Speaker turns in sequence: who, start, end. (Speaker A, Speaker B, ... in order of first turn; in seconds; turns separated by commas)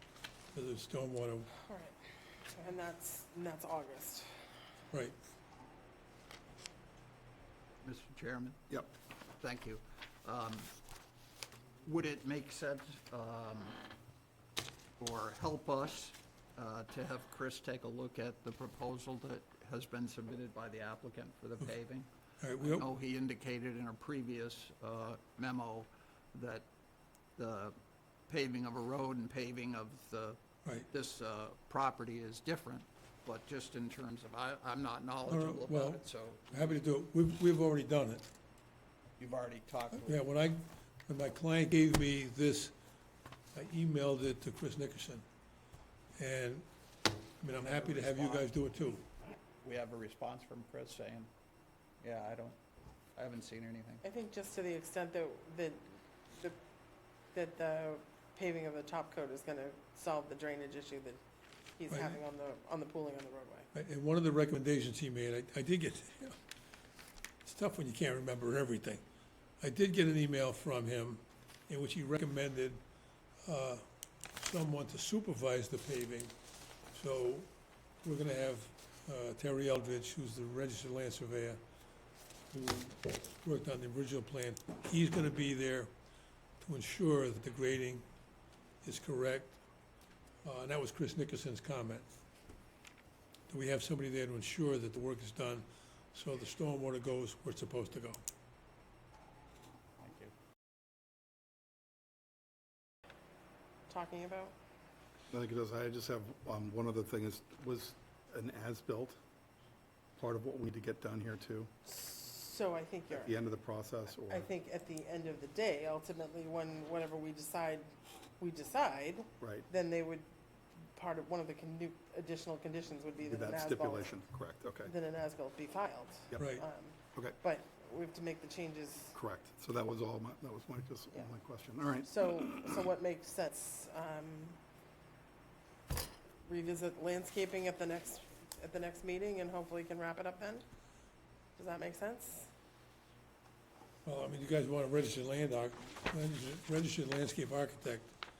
Speaker A: 0.5-1.5, Speaker B: 1.7-2.0, Speaker B: 2.5-4.3, Speaker C: 7.8-8.6, Speaker C: 9.4-10.7, Speaker C: 11.8-13.8, Speaker C: 15.0-26.7, Speaker A: 22.4-22.9, Speaker C: 27.4-27.8, Speaker C: 28.3-36.8, Speaker A: 35.3-38.3, Speaker C: 39.2-40.2, Speaker A: 40.0-42.7, Speaker A: 43.5-45.2, Speaker A: 46.2-46.7, Speaker A: 47.4-49.0, Speaker C: 47.6-48.5, Speaker C: 49.0-51.3, Speaker C: 52.0-52.6, Speaker C: 53.2-54.0, Speaker B: 54.0-56.6, Speaker B: 57.3-61.2, Speaker B: 61.8-63.7, Speaker A: 61.9-62.2, Speaker A: 63.7-66.4, Speaker A: 67.4-69.0, Speaker A: 69.6-72.8, Speaker A: 73.4-73.8, Speaker A: 74.4-76.3, Speaker A: 76.9-77.5, Speaker A: 78.0-81.6, Speaker A: 82.5-85.9, Speaker A: 86.6-88.0, Speaker A: 88.8-89.6, Speaker A: 90.5-92.1, Speaker A: 93.5-98.2, Speaker C: 100.0-100.3, Speaker B: 103.9-104.5, Speaker D: 105.3-109.2, Speaker D: 110.2-111.7, Speaker B: 111.8-113.3, Speaker D: 113.1-114.5, Speaker B: 114.3-120.3, Speaker D: 119.4-119.7, Speaker B: 121.0-124.2, Speaker D: 123.2-124.9, Speaker B: 124.8-129.2, Speaker A: 126.4-126.7, Speaker D: 129.2-132.8, Speaker B: 132.0-134.6, Speaker B: 136.4-140.7, Speaker B: 141.6-142.5, Speaker A: 144.1-148.1